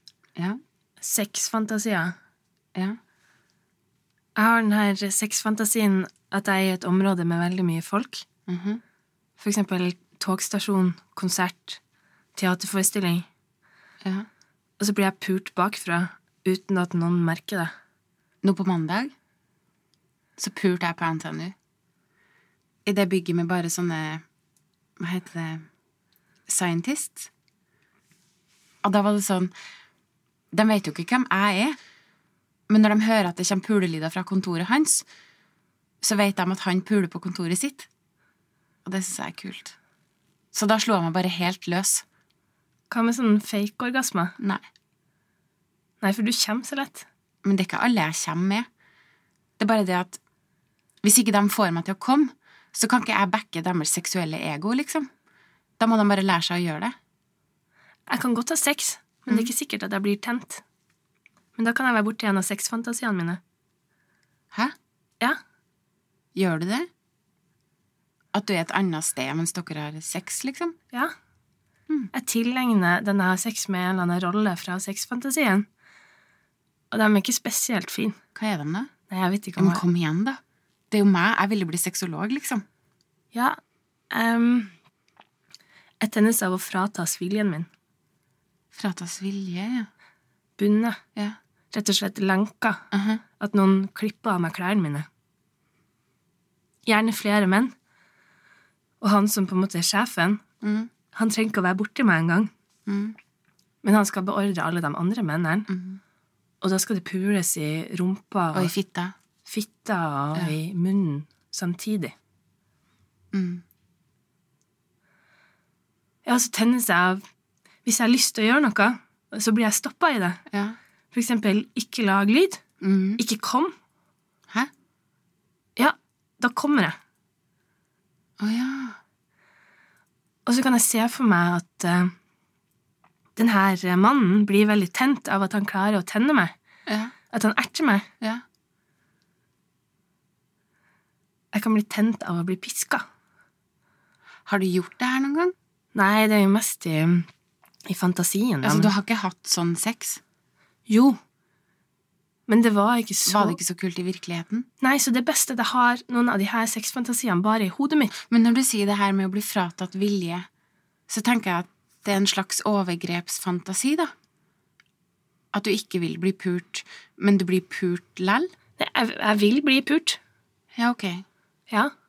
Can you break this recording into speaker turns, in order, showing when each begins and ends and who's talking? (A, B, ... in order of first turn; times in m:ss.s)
0:01.0-0:02.1 A
0:04.4-0:08.2 A
0:08.5-0:08.8 B
0:09.4-0:11.8 A
0:12.4-0:13.3 A
0:14.8-0:17.7 A
0:18.4-0:19.1 B
0:20.4-0:21.5 B
0:22.9-0:24.2 B
0:25.0-0:25.7 B
0:26.5-0:27.3 B
0:28.8-0:29.5 B
0:30.5-0:31.8 B
0:32.7-0:35.1 B
0:36.0-0:37.9 B
0:38.8-0:39.8 B
0:40.5-0:42.0 B
0:42.9-0:44.4 A
0:46.0-0:47.1 A
0:47.4-0:48.7 B
0:49.6-0:50.2 B
0:51.0-0:55.1 B
0:55.8-0:56.9 B
0:58.1-1:00.6 A
1:01.6-1:03.4 A
1:06.4-1:06.9 B
1:08.3-1:10.8 B
1:12.1-1:15.7 A
1:16.9-1:18.2 A
1:18.4-1:18.9 B
1:19.1-1:19.8 A
1:19.6-1:20.4 B
1:20.9-1:22.6 B
1:24.1-1:24.7 A
1:26.0-1:27.7 A
1:28.7-1:29.9 B
1:30.6-1:31.0 A
1:31.7-1:32.8 A
1:32.9-1:33.2 B
1:33.4-1:35.1 A
1:36.9-1:37.7 A
1:39.0-1:40.4 A
1:40.6-1:40.9 B
1:41.1-1:42.5 A
1:42.9-1:43.2 B
1:43.8-1:45.7 A
1:45.7-1:46.0 B
1:46.6-1:48.7 A
1:48.5-1:49.2 B
1:49.4-1:52.1 A
1:53.3-1:53.6 B
1:56.2-1:57.2 A
1:57.8-2:00.4 A
2:00.5-2:00.8 B
2:01.1-2:02.6 A
2:02.8-2:03.2 B
2:03.2-2:03.7 A
2:05.8-2:07.0 A
2:08.4-2:09.0 B
2:10.5-2:12.1 A
2:13.4-2:16.5 A
2:16.9-2:17.1 B
2:17.3-2:18.1 A
2:21.5-2:23.0 A
2:24.5-2:25.5 B
2:25.9-2:27.3 A
2:27.9-2:28.9 A
2:28.6-2:30.2 B
2:30.9-2:31.2 A
2:32.5-2:33.6 A
2:33.3-2:34.7 B
2:34.8-2:38.1 A
2:38.3-2:40.4 B
2:41.1-2:44.1 B
2:45.5-2:48.5 B
2:48.8-2:50.2 A
2:50.8-2:51.2 B